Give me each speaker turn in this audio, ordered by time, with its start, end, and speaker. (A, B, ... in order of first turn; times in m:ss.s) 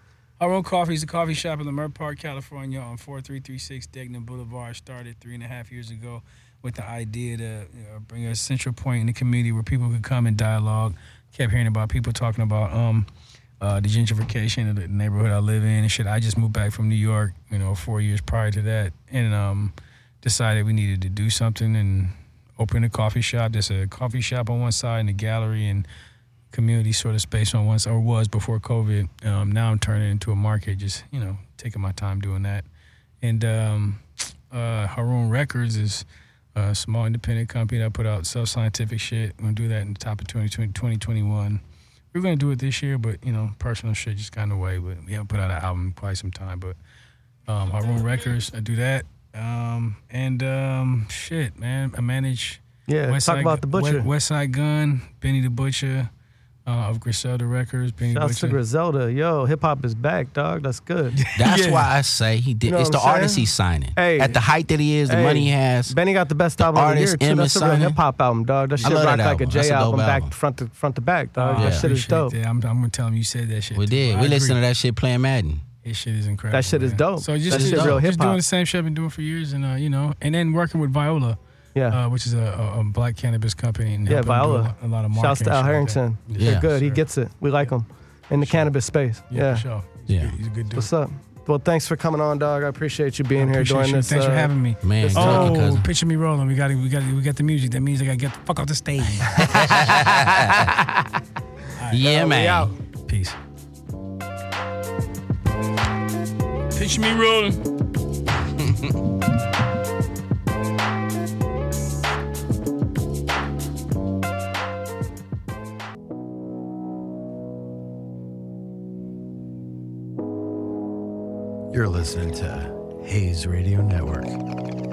0:00.4-0:13.1 A
0:13.6-0:25.9 A
0:26.5-0:32.7 A
0:33.2-0:41.6 A
0:42.1-0:46.8 A
0:47.5-0:56.1 A
0:52.9-0:54.1 B
0:56.7-0:58.6 A
0:58.1-1:01.2 B
1:01.2-1:01.9 A
1:01.4-1:06.0 C
1:02.7-1:04.4 B
1:05.1-1:12.4 B
1:06.6-1:08.0 C
1:08.8-1:09.0 A
1:08.8-1:10.3 C
1:11.4-1:14.6 A
1:11.6-1:11.9 C
1:13.8-1:15.6 C
1:15.8-1:21.4 A
1:16.5-1:18.4 B
1:17.5-1:18.0 C
1:21.9-1:27.0 A
1:24.1-1:29.6 B
1:26.4-1:26.7 C
1:28.4-1:28.7 A
1:29.3-1:30.9 A
1:30.1-1:30.3 C
1:30.7-1:35.6 B
1:33.4-1:39.9 A
1:34.8-1:35.9 C
1:39.4-1:40.7 C
1:40.4-1:40.7 B
1:41.8-1:42.1 A
1:41.9-1:42.7 C
1:42.0-1:42.7 B
1:42.9-1:43.4 A
1:46.7-1:47.7 A
2:01.7-2:04.4 D